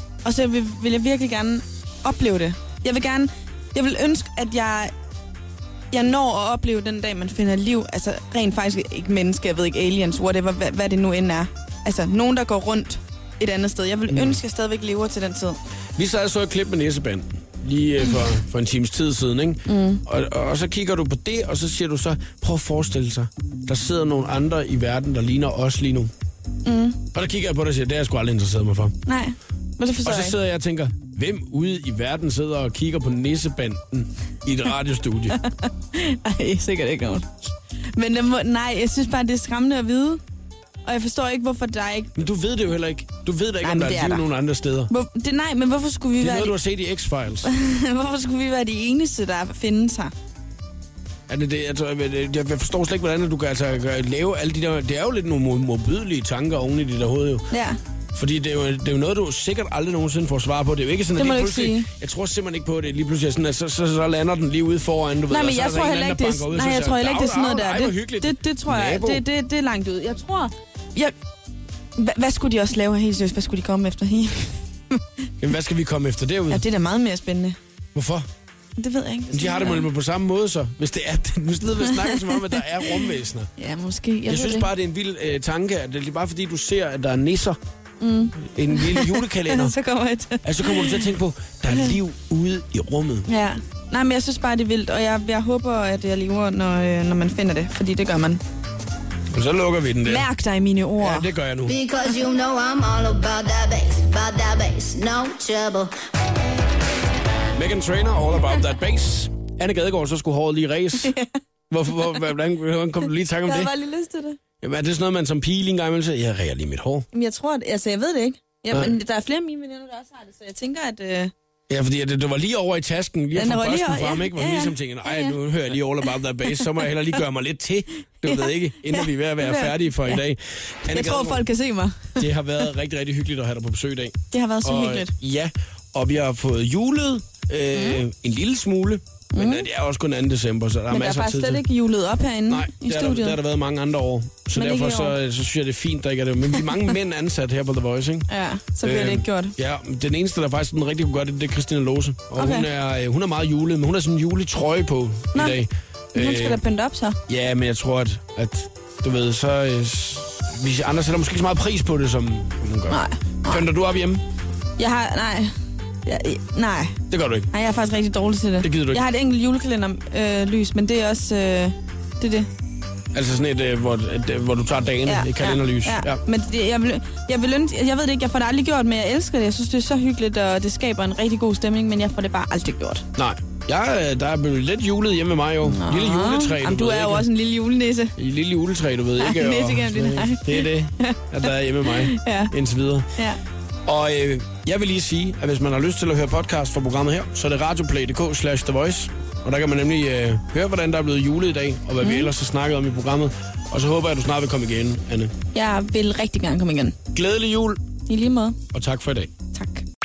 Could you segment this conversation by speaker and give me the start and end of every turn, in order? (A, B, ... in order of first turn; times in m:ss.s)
0:00.2-0:04.9 A
0:05.9-0:15.6 A
0:14.1-0:14.4 B
0:16.0-0:26.1 B
0:19.7-0:20.0 A
0:26.6-0:27.0 A
0:27.1-0:29.0 B
0:29.0-0:30.4 A
0:30.0-0:35.4 B
0:35.3-0:40.2 A
0:40.8-0:42.1 A
0:42.2-0:44.9 B
0:43.6-0:44.2 A
0:44.9-0:46.6 A
0:46.2-0:47.5 B
0:47.4-0:50.1 A
0:51.3-0:57.5 B
0:57.5-0:57.8 A
0:58.1-1:09.2 B
1:01.2-1:01.9 A
1:05.3-1:11.1 A
1:12.0-1:15.0 A
1:15.4-1:16.6 B
1:16.5-1:17.6 A
1:17.9-1:18.3 B
1:18.8-1:19.9 A
1:19.3-1:23.5 B
1:21.9-1:23.0 A
1:23.6-1:24.7 A
1:24.3-1:27.6 B
1:28.0-1:31.1 A
1:28.4-1:29.7 B
1:30.4-1:33.3 B
1:33.3-1:38.4 A
1:39.3-1:40.3 B
1:40.0-1:41.3 A
1:41.0-1:41.8 B
1:41.6-1:45.9 C
1:47.5-1:51.1 B
1:51.0-1:51.3 A
1:51.7-1:53.7 B
1:53.4-1:54.4 A
1:54.6-1:57.0 B
1:57.1-2:01.3 A
1:58.7-1:59.0 B
2:01.7-2:11.4 B
2:03.3-2:05.4 A
2:08.2-2:10.2 A
2:10.9-2:12.3 A
2:12.2-2:21.6 B
2:14.3-2:15.1 A
2:17.7-2:18.0 A
2:19.3-2:19.7 A
2:20.9-2:23.4 A
2:22.5-2:28.3 B
2:24.5-2:25.2 A
2:28.3-2:29.5 A
2:28.8-2:36.6 B
2:32.4-2:32.7 A
2:35.3-2:35.6 A
2:36.1-2:37.2 A
2:37.3-2:44.2 B
2:42.9-2:43.6 A
2:44.8-2:47.0 A
2:47.1-2:47.5 B
2:47.5-2:52.5 A
2:48.6-2:49.0 B
2:53.1-2:56.2 B
2:55.0-3:03.0 A
3:03.1-3:07.3 B
3:05.6-3:08.1 A
3:08.2-3:13.0 B
3:09.2-3:12.5 A
3:13.8-3:25.3 B
3:22.0-3:22.3 A
3:25.5-3:27.0 A
3:27.1-3:27.8 B
3:28.1-3:28.6 A
3:28.7-3:29.3 B
3:29.5-3:29.8 A